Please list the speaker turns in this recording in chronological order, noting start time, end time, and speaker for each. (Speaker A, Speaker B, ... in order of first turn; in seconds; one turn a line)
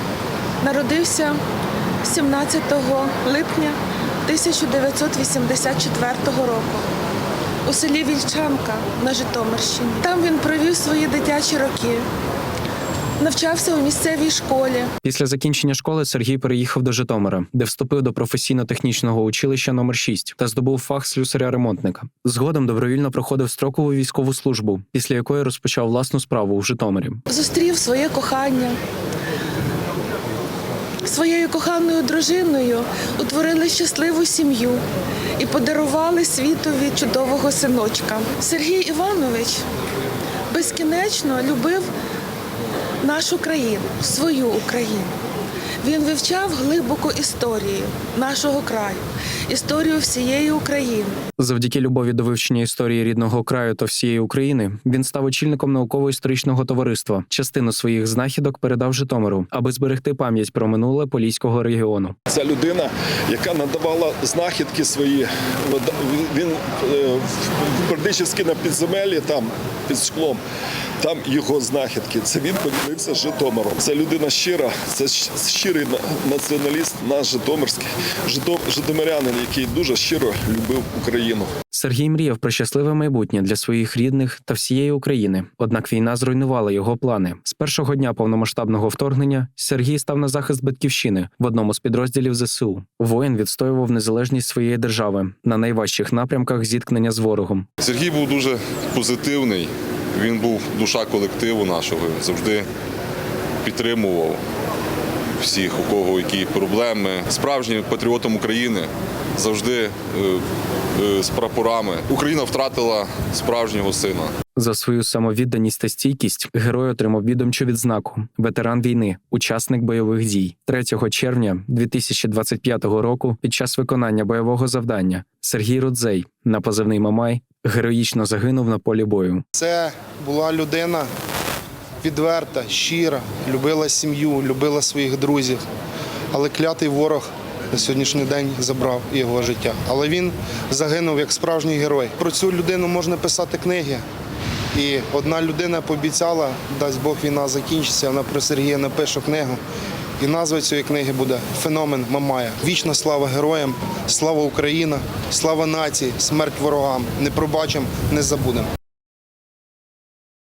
Speaker A: 0.6-1.4
Speaker A: 2.0-6.8
Speaker A: 7.7-12.1
Speaker A: 13.2-14.9
Speaker B: 15.0-27.2
Speaker A: 27.3-28.8
Speaker A: 31.0-34.8
Speaker A: 35.4-39.6
Speaker A: 40.5-41.9
Speaker A: 43.0-45.1
Speaker A: 45.8-51.1
Speaker B: 51.4-62.1
Speaker C: 62.3-70.4
Speaker C: 71.0-81.5
Speaker B: 81.7-97.7
Speaker D: 97.8-102.7
Speaker D: 103.6-104.4
Speaker D: 105.4-110.4
Speaker D: 110.9-114.3
Speaker B: 114.5-129.4
Speaker E: 129.6-131.1
Speaker E: 132.0-135.6
Speaker E: 136.3-144.0
Speaker E: 144.7-149.6
Speaker E: 150.2-158.7